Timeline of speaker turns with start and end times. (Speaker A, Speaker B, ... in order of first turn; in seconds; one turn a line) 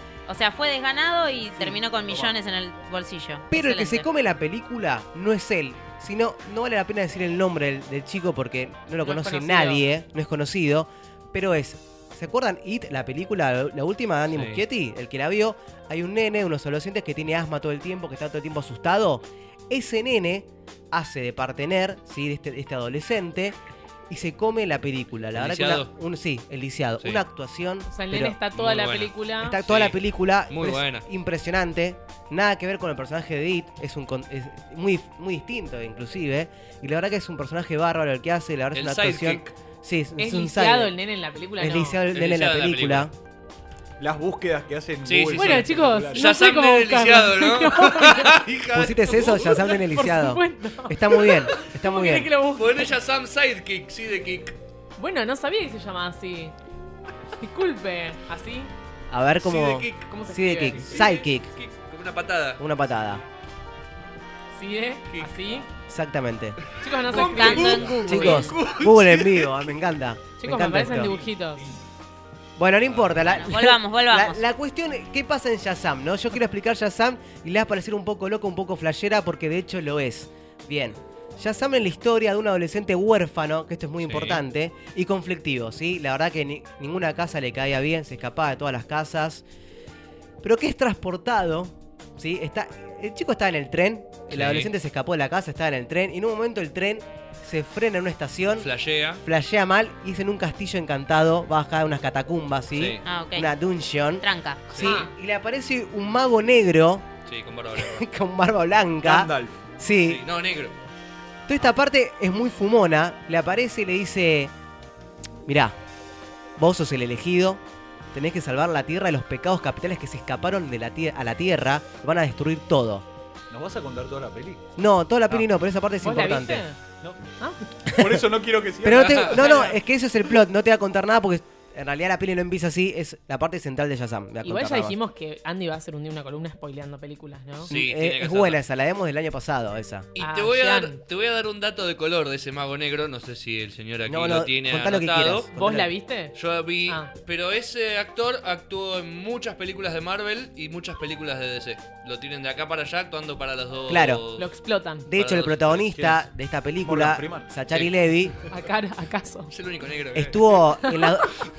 Speaker A: 0.3-4.1
Speaker B: 1.6-2.3
Speaker C: 3.5-23.6
Speaker D: 9.0-9.8
Speaker E: 14.3-14.6
Speaker C: 24.1-28.4
Speaker E: 25.4-25.9
Speaker D: 27.9-29.6
Speaker E: 28.5-31.1
Speaker C: 29.4-40.9
Speaker E: 38.7-39.5
Speaker D: 40.2-42.0
Speaker C: 41.6-43.1
Speaker E: 42.1-43.1
Speaker B: 44.0-46.3
Speaker E: 45.0-49.7
Speaker D: 45.4-48.5
Speaker C: 48.7-52.3
Speaker D: 49.9-52.9
Speaker E: 52.5-54.5
Speaker D: 55.0-56.5
Speaker D: 57.4-58.7
Speaker C: 59.1-61.5
Speaker E: 59.4-62.6
Speaker D: 60.1-60.9
Speaker C: 62.6-63.2
Speaker D: 64.5-65.7
Speaker E: 65.1-65.6
Speaker C: 65.8-66.6
Speaker D: 66.8-68.3
Speaker A: 67.1-68.6
Speaker E: 67.2-69.5
Speaker C: 67.3-71.1
Speaker D: 70.4-71.7
Speaker B: 70.9-71.8
Speaker C: 72.6-89.4
Speaker A: 73.3-74.5
Speaker E: 84.0-84.4
Speaker C: 90.4-98.7
Speaker E: 94.3-94.7
Speaker E: 98.6-99.2
Speaker C: 99.2-107.1
Speaker E: 102.7-103.0
Speaker A: 103.0-103.6
Speaker A: 104.2-104.7
Speaker E: 104.7-105.1
Speaker D: 104.8-105.1
Speaker E: 107.3-108.1
Speaker C: 107.8-110.2
Speaker B: 109.0-109.6
Speaker E: 110.0-110.8
Speaker C: 111.5-114.5
Speaker C: 115.5-115.8
Speaker C: 116.6-117.6
Speaker C: 118.1-123.0
Speaker B: 123.5-124.7
Speaker C: 124.8-126.7
Speaker D: 126.0-126.8
Speaker B: 127.9-129.7
Speaker C: 128.0-128.2
Speaker C: 128.8-134.9
Speaker E: 128.9-129.4
Speaker D: 134.4-137.7
Speaker C: 137.7-140.1
Speaker E: 137.7-138.6
Speaker E: 140.2-145.5
Speaker D: 140.2-141.0
Speaker C: 144.1-145.9
Speaker D: 145.5-146.3
Speaker E: 146.3-154.5
Speaker D: 146.9-147.1
Speaker C: 153.9-154.2
Speaker D: 154.4-155.1
Speaker C: 155.1-158.4
Speaker E: 155.1-155.8
Speaker B: 155.8-156.3
Speaker B: 156.8-157.5
Speaker D: 158.5-159.5
Speaker E: 159.5-160.6
Speaker C: 160.1-161.3
Speaker D: 160.8-161.3